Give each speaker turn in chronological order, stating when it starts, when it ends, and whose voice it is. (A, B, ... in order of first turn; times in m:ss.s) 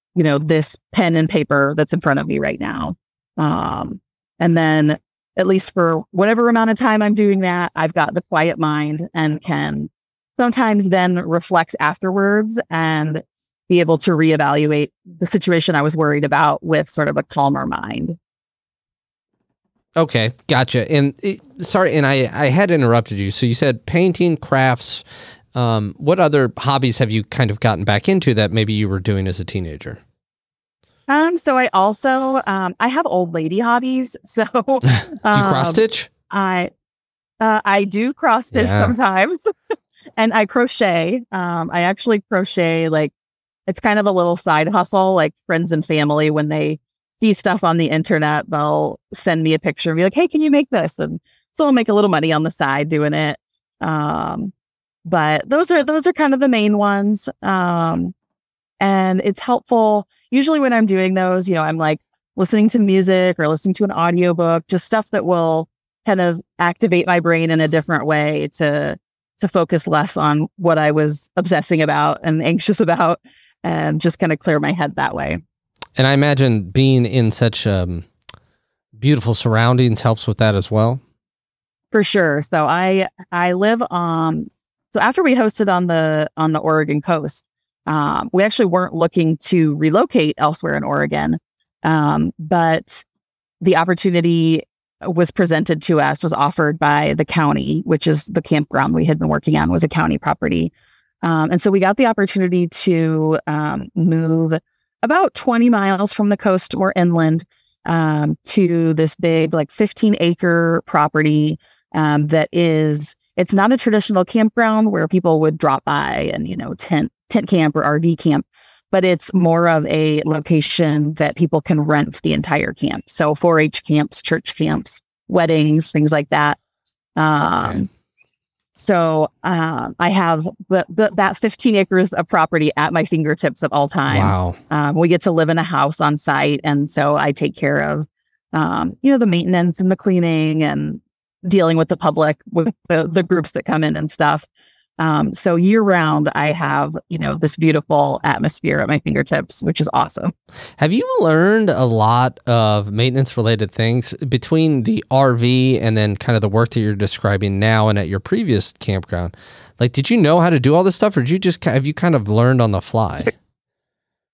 0:00.2-0:18.2 A
0:20.0-0:30.0 B
0:31.1-0:36.7 A
0:35.3-0:36.1 B
0:37.4-0:39.5 A
0:38.5-0:38.9 B
0:40.2-0:43.1 A
0:43.7-0:54.5 A
0:55.1-0:58.1 A
0:58.8-1:15.4 A
1:16.0-1:18.1 B
1:19.0-1:21.0 B
1:21.9-1:33.0 A
1:33.6-1:40.7 A
1:41.2-2:06.6 A
2:07.2-2:07.9 A
2:08.8-2:24.5 A
2:14.1-2:14.6 B
2:25.0-2:30.3 A
2:30.8-2:43.3 B